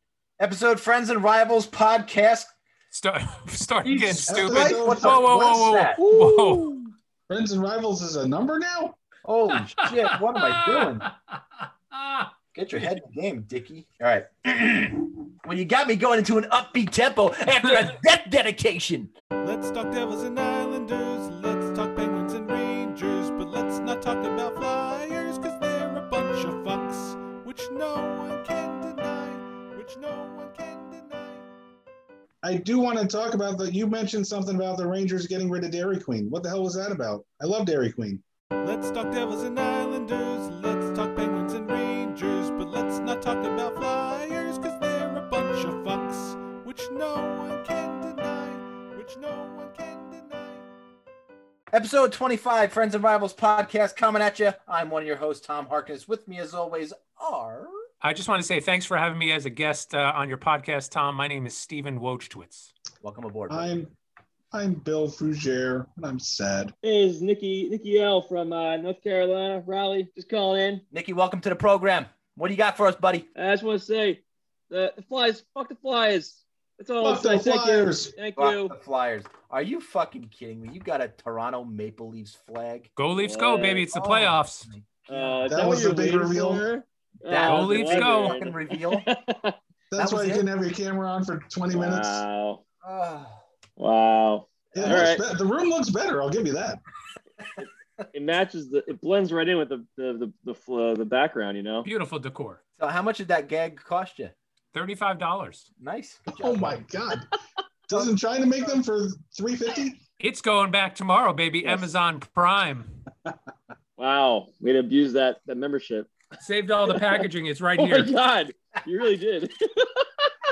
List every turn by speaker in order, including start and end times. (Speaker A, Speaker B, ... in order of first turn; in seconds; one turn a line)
Speaker A: 0.4-2.5
Speaker B: 2.9-6.9
Speaker A: 3.8-6.7
Speaker C: 4.3-5.6
Speaker C: 7.3-8.9
Speaker A: 9.2-11.1
Speaker B: 9.8-12.3
Speaker A: 12.5-19.1
Speaker D: 19.4-31.5
Speaker C: 32.4-38.2
Speaker D: 38.6-50.7
Speaker A: 51.7-57.7
Speaker B: 58.0-62.7
Speaker A: 63.0-63.8
Speaker C: 63.5-63.9
Speaker C: 64.5-66.7
Speaker E: 66.8-70.8
Speaker A: 70.9-73.3
Speaker E: 73.3-78.7
Speaker C: 77.0-78.1
Speaker A: 78.3-82.9
Speaker B: 83.0-84.7
Speaker E: 83.2-83.8
Speaker A: 83.9-85.4
Speaker E: 85.1-89.5
Speaker C: 85.5-86.7
Speaker A: 87.3-89.0
Speaker B: 87.4-88.4
Speaker C: 89.9-92.2
Speaker A: 90.0-90.4
Speaker E: 91.7-92.6
Speaker A: 92.8-93.4
Speaker E: 93.8-95.2
Speaker C: 94.7-96.8
Speaker A: 94.8-95.0
Speaker E: 98.1-101.9
Speaker B: 101.8-102.6
Speaker A: 102.8-104.3
Speaker B: 104.7-105.7
Speaker A: 105.8-106.8
Speaker C: 106.3-107.3
Speaker C: 107.9-110.0
Speaker B: 110.2-112.9
Speaker E: 111.6-111.9
Speaker E: 114.0-116.1
Speaker B: 116.4-118.1
Speaker E: 116.9-117.2
Speaker E: 117.8-120.3